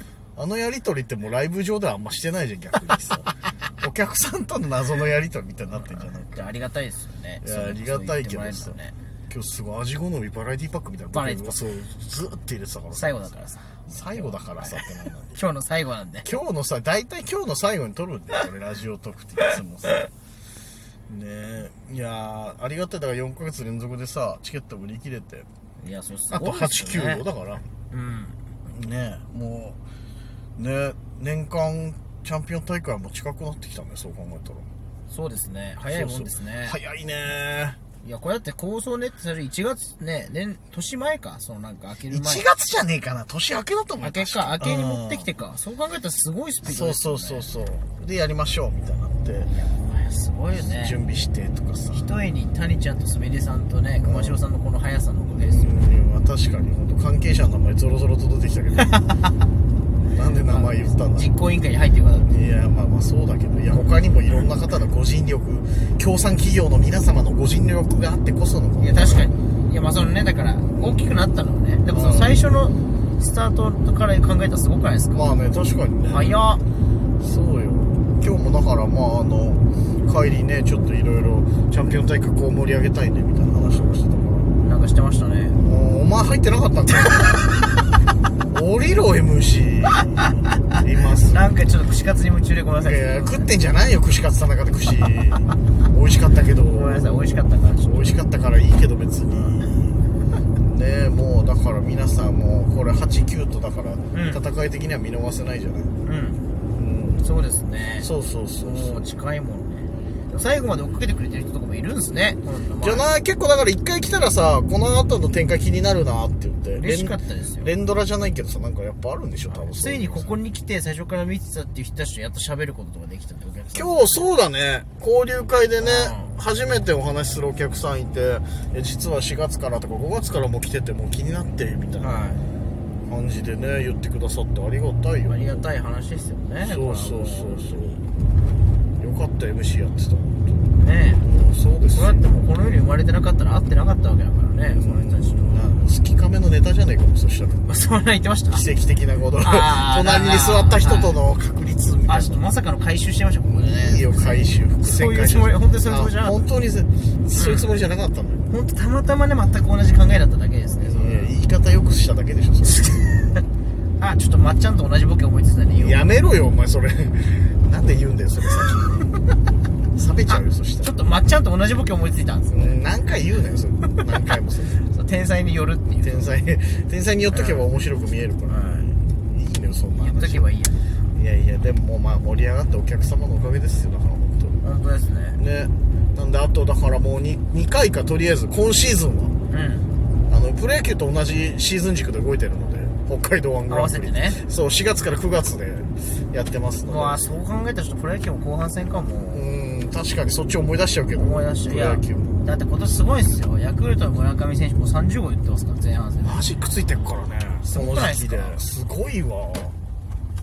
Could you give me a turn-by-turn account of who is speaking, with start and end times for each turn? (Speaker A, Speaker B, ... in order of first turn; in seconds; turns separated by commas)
Speaker A: 0.3-6.5, Speaker B: 5.7-8.9, Speaker A: 7.4-8.8, Speaker A: 9.3-13.3, Speaker B: 11.1-11.6, Speaker B: 12.9-14.8, Speaker A: 13.8-15.4, Speaker B: 15.3-16.3, Speaker A: 16.2-20.1, Speaker A: 21.1-25.5, Speaker B: 25.8-27.2, Speaker A: 26.3-27.6, Speaker B: 27.9-28.4, Speaker A: 28.7-29.8, Speaker A: 30.6-34.7, Speaker B: 35.1-36.8, Speaker A: 35.9-37.8, Speaker B: 38.0-42.5, Speaker A: 42.1-45.3, Speaker B: 44.0-47.5, Speaker A: 46.6-49.5, Speaker B: 49.5-51.0, Speaker A: 50.6-52.1, Speaker B: 51.9-55.8, Speaker A: 54.0-54.4, Speaker A: 55.4-59.1, Speaker A: 60.1-61.3, Speaker B: 60.4-62.3, Speaker A: 62.2-69.3, Speaker B: 63.7-64.4, Speaker B: 68.8-75.4, Speaker A: 70.8-71.0, Speaker A: 71.9-72.5, Speaker A: 75.1-76.5, Speaker B: 76.1-76.6, Speaker A: 77.2-84.6, Speaker B: 84.6-85.6, Speaker A: 85.5-87.6, Speaker A: 88.5-91.4, Speaker B: 91.2-93.5, Speaker A: 92.8-100.0, Speaker B: 96.7-98.2, Speaker B: 99.3-99.5, Speaker A: 100.6-105.9, Speaker B: 104.1-104.4, Speaker B: 106.0-106.4, Speaker A: 106.7-107.3, Speaker B: 107.2-108.1, Speaker A: 108.0-109.0, Speaker B: 108.6-113.1, Speaker A: 112.8-120.3, Speaker B: 116.8-117.7, Speaker B: 119.5-124.3, Speaker A: 123.7-132.3, Speaker B: 125.8-126.3, Speaker B: 132.0-132.4, Speaker A: 133.1-135.6, Speaker B: 135.2-137.8, Speaker A: 136.6-138.0, Speaker A: 139.0-142.2, Speaker B: 140.8-141.2, Speaker B: 141.9-145.8, Speaker A: 144.6-147.7, Speaker B: 147.6-148.6, Speaker A: 148.5-152.4, Speaker B: 149.4-151.2, Speaker B: 152.1-156.4, Speaker A: 153.5-158.5, Speaker B: 157.3-157.7, Speaker B: 158.5-161.3, Speaker A: 160.8-163.2, Speaker B: 164.0-166.0, Speaker A: 165.7-169.1, Speaker A: 169.9-171.1, Speaker B: 170.8-172.8, Speaker A: 172.5-174.9, Speaker B: 174.9-176.3, Speaker A: 176.0-180.5, Speaker B: 177.3-177.7, Speaker B: 178.5-178.9, Speaker B: 180.0-180.9, Speaker A: 181.1-184.6, Speaker B: 184.6-185.4, Speaker A: 185.4-189.3, Speaker B: 189.5-189.9, Speaker A: 190.3-197.3, Speaker B: 193.7-194.4, Speaker B: 196.8-199.4, Speaker A: 199.3-202.4, Speaker B: 201.1-206.5, Speaker A: 206.2-209.8, Speaker B: 207.7-208.6